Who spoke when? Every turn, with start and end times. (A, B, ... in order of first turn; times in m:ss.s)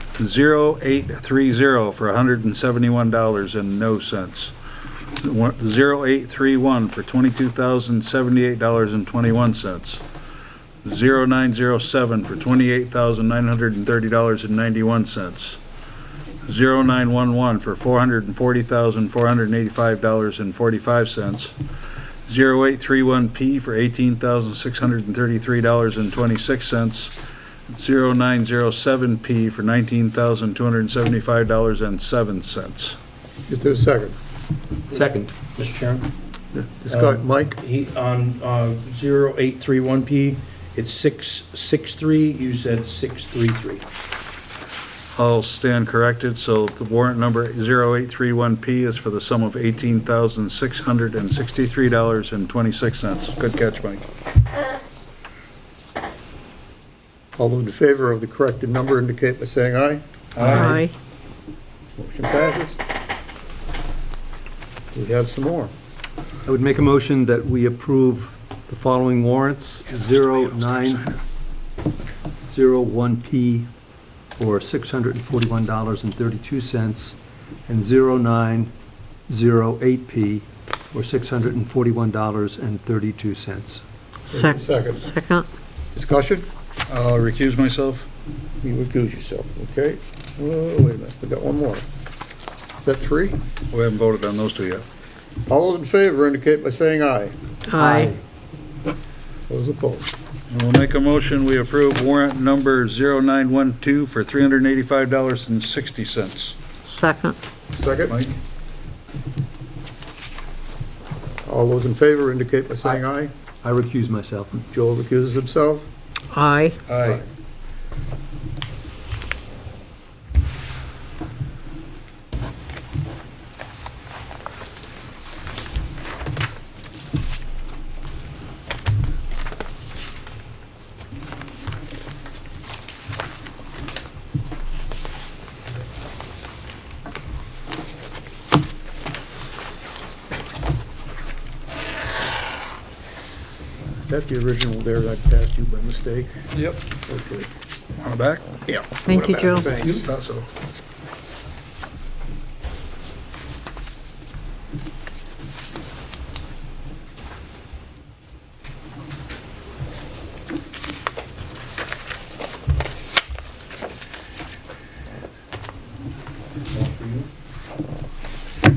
0:00.2-0:04.5 A
0:05.2-0:10.0 A
0:10.8-0:15.6 A
0:16.4-0:21.6 A
0:22.3-0:27.1 A
0:27.7-0:33.0 A
0:33.5-0:34.2 B
0:34.9-0:36.1 C
0:35.0-0:35.3 D
0:36.5-0:37.6 B
0:36.9-0:43.8 C
0:45.1-0:54.0 A
0:57.4-1:00.0 B
1:00.3-1:00.8 A
1:00.4-1:00.9 E
1:02.0-1:02.8 B
1:04.9-1:05.7 B
1:06.5-1:11.1 D
1:10.0-1:11.2 A
1:12.5-1:13.7 D
1:14.4-1:17.1 D
1:17.7-1:18.7 D
1:19.3-1:23.8 D
1:24.3-1:25.5 E
1:24.3-1:25.0 B
1:26.0-1:26.5 B
1:26.9-1:28.1 A
1:28.6-1:31.8 B
1:32.8-1:33.4 B
1:33.7-1:34.9 A
1:35.5-1:37.4 B
1:37.7-1:38.1 E
1:37.8-1:38.1 D
1:39.5-1:40.1 B
1:40.5-1:46.6 A
1:46.8-1:47.4 E
1:47.8-1:48.2 B
1:48.0-1:48.4 A
1:51.4-1:53.3 B
1:53.6-1:54.6 D
1:54.5-1:55.9 B
1:56.3-1:56.8 E
1:56.9-1:57.2 A
2:24.1-2:26.3 B
2:26.5-2:26.8 A
2:27.1-2:27.5 B
2:28.0-2:28.5 A
2:28.7-2:30.1 B
2:29.0-2:29.7 E
2:29.8-2:30.5 A
2:46.7-2:47.2 C